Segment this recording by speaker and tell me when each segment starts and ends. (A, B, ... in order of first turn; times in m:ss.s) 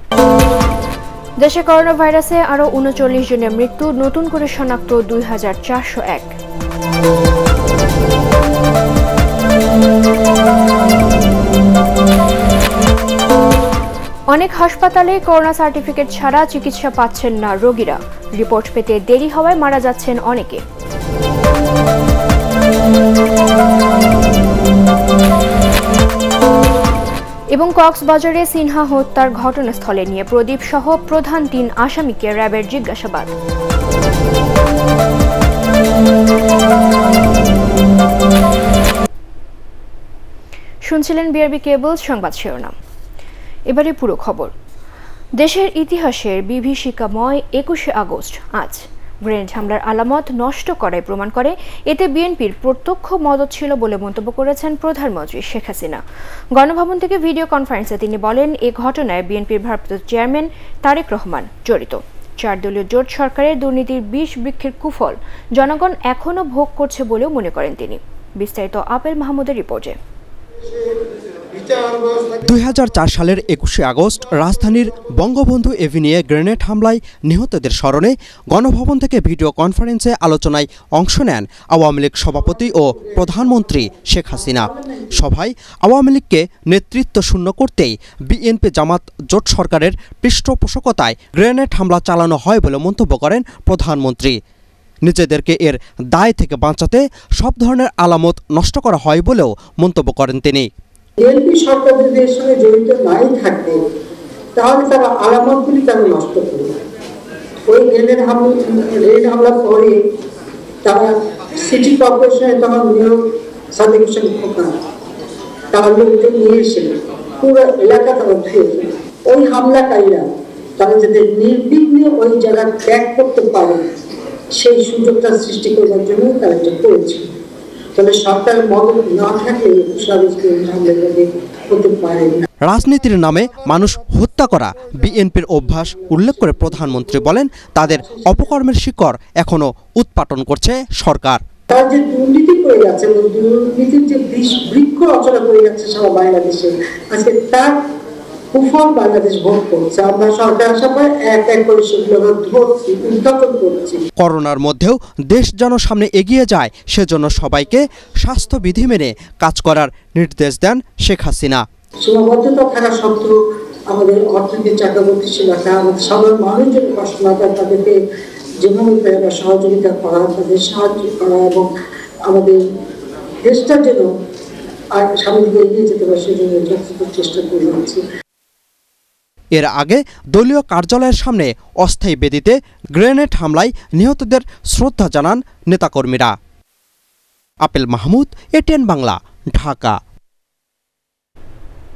0:01.4-0:06.4 A
0:14.3-0:20.6 A
0:27.5-0:33.3 A
0:40.8-0:42.7 A
0:43.7-0:44.5 A
0:45.4-0:56.0 A
0:56.6-1:10.0 A
1:12.4-1:34.4 B
1:24.7-1:25.0 C
1:35.1-1:40.7 B
1:41.2-1:43.8 C
1:44.6-1:46.7 C
1:47.7-1:50.0 C
1:50.8-1:54.8 C
1:55.7-2:00.2 C
2:00.8-2:03.9 C
2:04.6-2:07.3 C
2:08.0-2:12.4 C
2:12.6-2:21.4 B
2:16.3-2:16.6 C
2:17.9-2:18.6 C
2:21.7-2:27.8 C
2:28.5-2:34.0 C
2:34.2-2:41.7 B
2:42.0-2:43.3 C
2:43.9-2:48.0 C
2:48.6-2:51.7 C
2:52.3-2:52.6 C
2:53.4-2:54.1 C
2:54.9-2:58.0 C
2:59.6-3:06.4 B
3:07.6-3:10.0 B